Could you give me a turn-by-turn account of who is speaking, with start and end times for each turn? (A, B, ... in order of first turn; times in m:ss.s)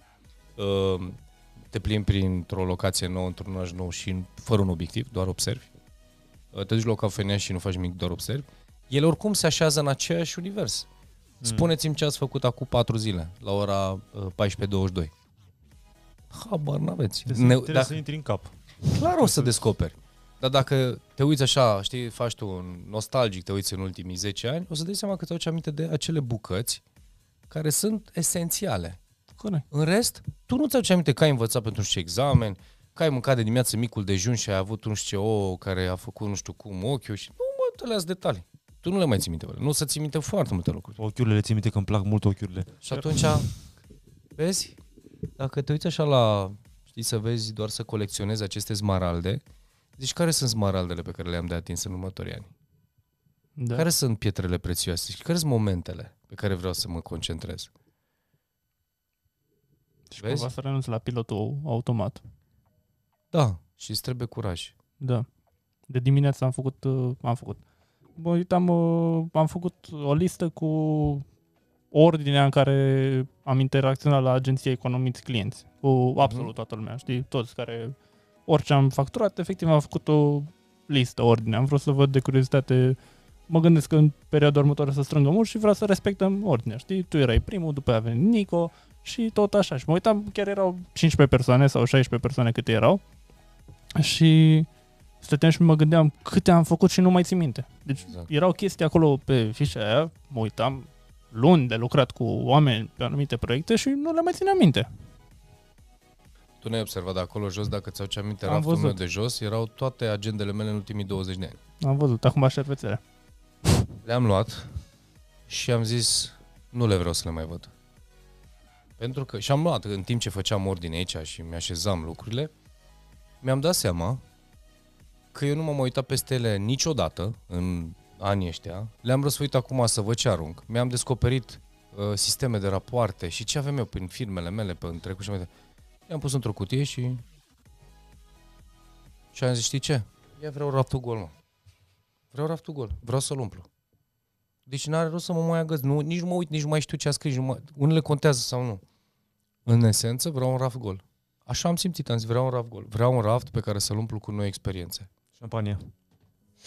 0:00.6-0:05.7 A
0:06.5-0:10.9 A
0:11.4-0:11.7 B
0:11.4-0:15.1 A
0:16.3-0:18.0 A
0:17.2-0:19.6 B
0:18.9-0:26.8 A
0:27.5-0:29.0 A
0:29.4-0:29.6 C
0:29.7-0:41.0 A
0:41.0-0:43.4 B
0:42.8-0:43.5 A
0:44.4-0:44.8 A
0:45.4-0:49.4 A
0:50.0-0:52.5 A
0:53.6-0:53.9 C
0:53.7-0:57.7 A
1:00.1-1:02.2 C
1:00.2-1:00.5 A
1:03.3-1:04.7 A
1:05.0-1:05.3 C
1:05.9-1:07.6 C
1:08.2-1:11.2 C
1:11.9-1:17.9 C
1:16.2-1:16.5 A
1:18.5-1:33.0 C
1:34.0-1:34.7 C
1:35.2-1:44.9 C
1:38.0-1:38.3 A
1:46.6-1:51.6 A
1:48.4-1:49.0 C
1:51.8-1:53.0 C
1:54.0-1:54.7 A
1:55.5-1:57.7 A
1:59.0-2:02.5 A
2:03.4-2:04.2 A
2:05.3-2:15.5 A
2:16.1-2:17.2 A
2:19.3-2:21.3 A
2:22.3-2:23.7 A
2:24.7-2:28.8 A
2:29.6-2:35.1 A
2:35.4-2:35.9 B